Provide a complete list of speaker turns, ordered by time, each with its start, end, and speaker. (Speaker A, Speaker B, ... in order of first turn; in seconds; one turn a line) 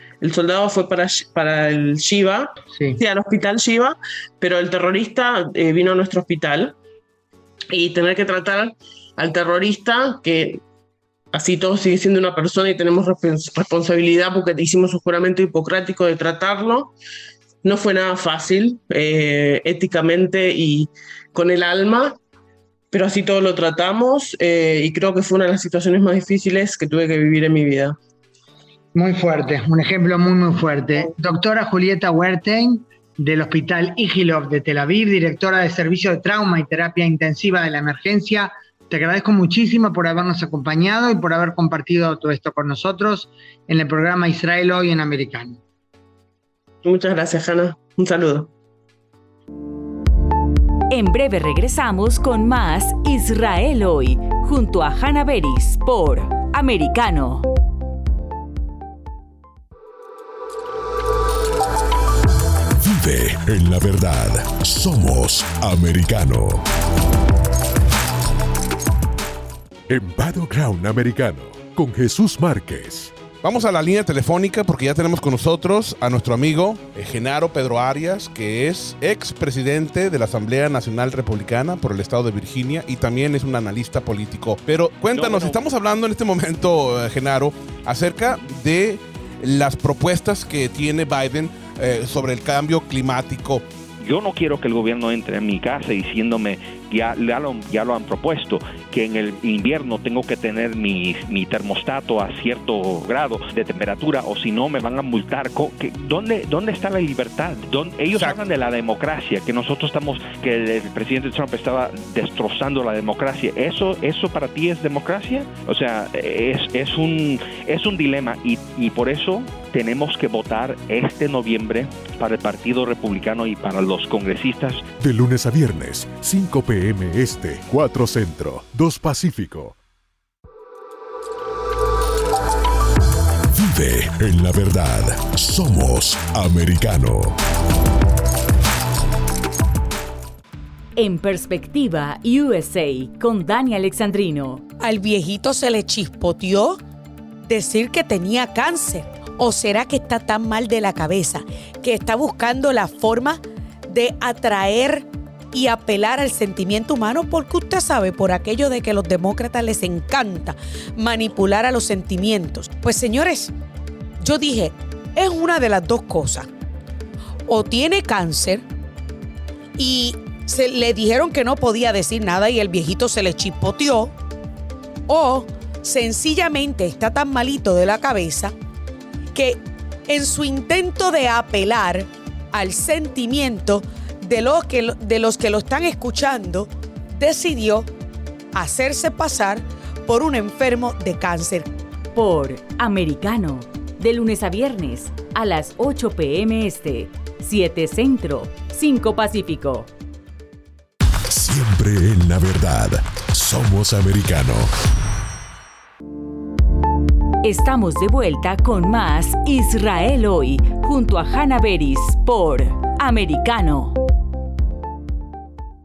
Speaker A: 0.2-6.7
Speaker B: 2.7-3.0
Speaker A: 7.7-10.6
Speaker A: 11.3-16.9
Speaker A: 17.6-22.1
Speaker A: 22.9-28.0
Speaker B: 28.9-45.6
Speaker A: 46.8-48.5
Speaker C: 50.9-57.5
Speaker D: 62.8-66.6
Speaker D: 69.9-73.1
Speaker E: 73.4-93.6
Speaker F: 85.1-85.6
Speaker F: 94.0-124.9
Speaker D: 125.0-129.8
Speaker D: 133.5-137.3
Speaker C: 140.9-144.6
Speaker G: 144.8-146.8
Speaker G: 147.5-163.5
Speaker G: 164.2-166.5
Speaker G: 167.5-168.6
Speaker G: 169.8-174.1
Speaker G: 175.1-178.5
Speaker G: 179.3-187.9
Speaker G: 188.5-191.7
Speaker C: 192.1-199.9
Speaker D: 201.3-204.7
Speaker C: 207.4-213.9